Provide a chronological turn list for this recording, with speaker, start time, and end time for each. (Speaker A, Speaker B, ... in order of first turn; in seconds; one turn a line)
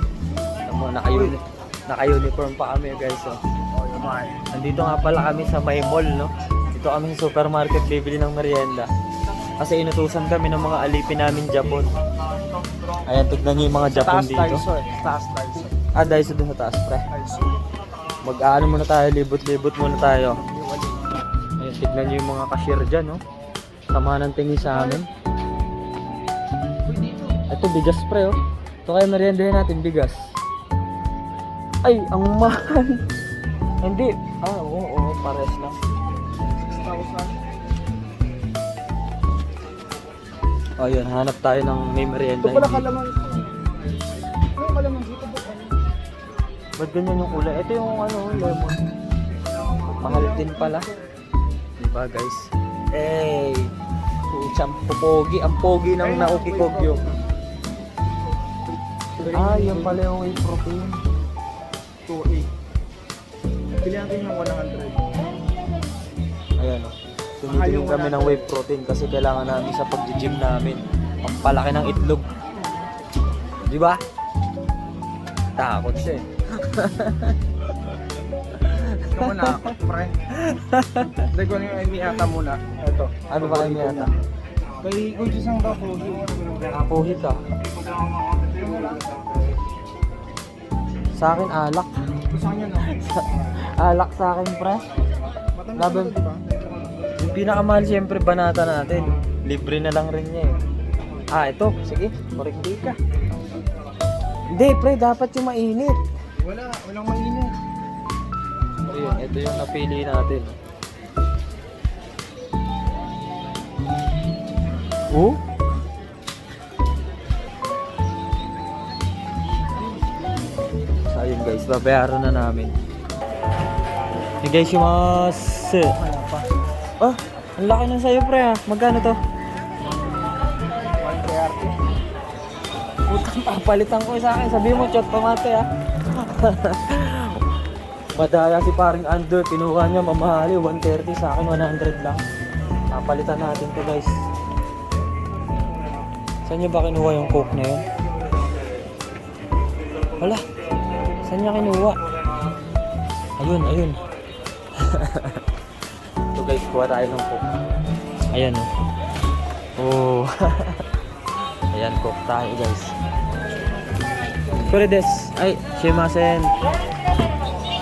Speaker A: 0.7-1.4
Speaker A: 1.9-3.4
Speaker B: 3.7-4.4
Speaker A: 4.5-8.9
Speaker A: 9.6-11.9
Speaker A: 13.1-14.6
Speaker B: 13.9-15.8
Speaker A: 15.9-17.1
Speaker B: 17.1-17.6
Speaker A: 18.2-20.4
Speaker B: 20.3-21.2
Speaker A: 21.6-23.2
Speaker A: 23.9-25.1
Speaker B: 24.6-25.0
Speaker B: 26.9-27.4
Speaker A: 27.5-30.2
Speaker A: 31.8-33.0
Speaker A: 33.8-35.8
Speaker B: 36.6-37.4
Speaker A: 40.8-42.9
Speaker B: 42.4-43.7
Speaker B: 44.6-45.8
Speaker A: 46.8-48.8
Speaker B: 50.0-51.0
Speaker A: 50.0-50.9
Speaker A: 51.8-53.7
Speaker A: 54.3-57.0
Speaker B: 56.0-57.1
Speaker B: 59.2-60.0
Speaker A: 59.3-61.0
Speaker B: 62.1-62.5
Speaker B: 63.8-65.2
Speaker A: 66.6-72.3
Speaker B: 67.5-68.5
Speaker A: 73.7-74.0
Speaker A: 75.6-77.4
Speaker A: 78.5-79.7
Speaker B: 79.1-80.2
Speaker A: 80.3-81.3
Speaker B: 81.3-84.1
Speaker A: 83.3-84.1
Speaker B: 84.8-86.5
Speaker A: 86.7-87.4
Speaker B: 88.5-89.3
Speaker A: 91.2-91.9
Speaker B: 92.3-93.2
Speaker A: 92.9-94.8
Speaker B: 95.4-96.6
Speaker A: 95.8-96.1
Speaker A: 97.2-100.6
Speaker A: 101.3-103.0
Speaker A: 104.5-106.0
Speaker B: 106.4-107.5
Speaker A: 108.9-110.6
Speaker B: 108.9-109.3
Speaker A: 115.1-115.4
Speaker A: 121.1-122.7
Speaker A: 124.4-126.0
Speaker B: 126.0-126.5
Speaker A: 127.0-129.2
Speaker B: 131.0-131.8
Speaker A: 133.1-137.4
Speaker A: 138.2-142.2
Speaker A: 142.9-144.1
Speaker A: 146.5-147.8
Speaker A: 151.3-152.0
Speaker A: 153.4-154.0
Speaker A: 154.8-155.4
Speaker A: 156.3-157.4
Speaker A: 158.3-158.7
Speaker A: 159.8-160.8
Speaker A: 161.7-162.9
Speaker A: 164.5-166.5